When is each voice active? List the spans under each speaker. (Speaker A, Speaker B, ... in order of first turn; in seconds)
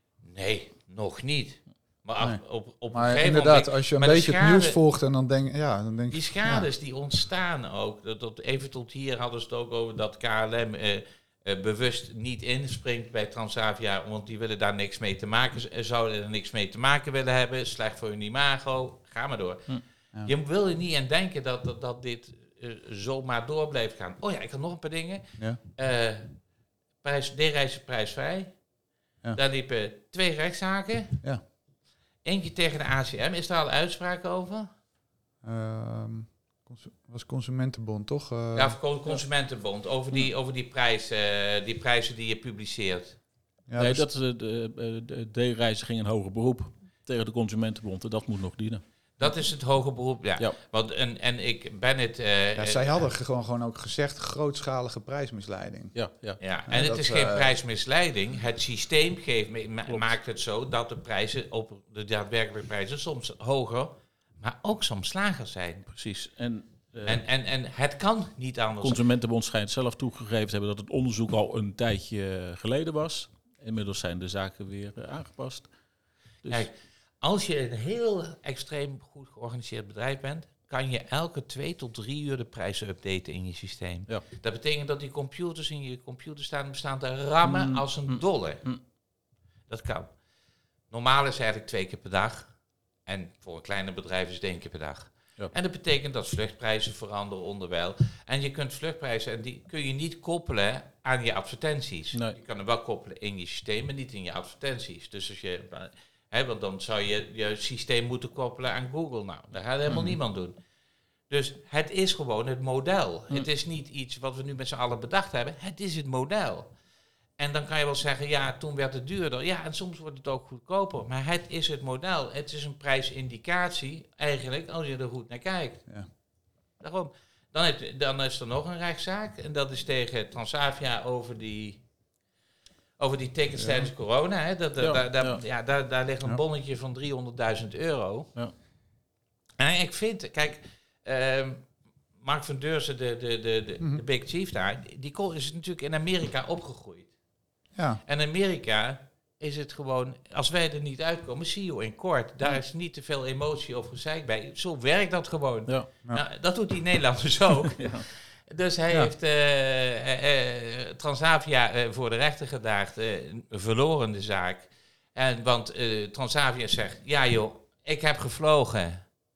Speaker A: 0.2-4.8, 6.1-26.3, 27.0-28.6, 29.3-31.2, 32.2-34.7, 38.5-43.2, 49.2-53.1, 56.4-65.9, 67.0-69.0, 76.5-88.8, 89.7-90.2, 90.9-110.6, 111.3-116.7, 117.4-126.1, 126.8-131.9, 133.0-138.3, 139.6-147.1, 148.0-169.1
Speaker B: 2.2-6.7, 35.4-38.8, 43.7-44.1, 52.5-55.9, 56.7-57.5, 133.6-133.9, 147.7-148.0
Speaker C: 43.8-48.8, 55.9-56.4, 65.9-67.2, 68.8-75.7, 87.4-88.8, 134.8-135.4, 157.8-158.0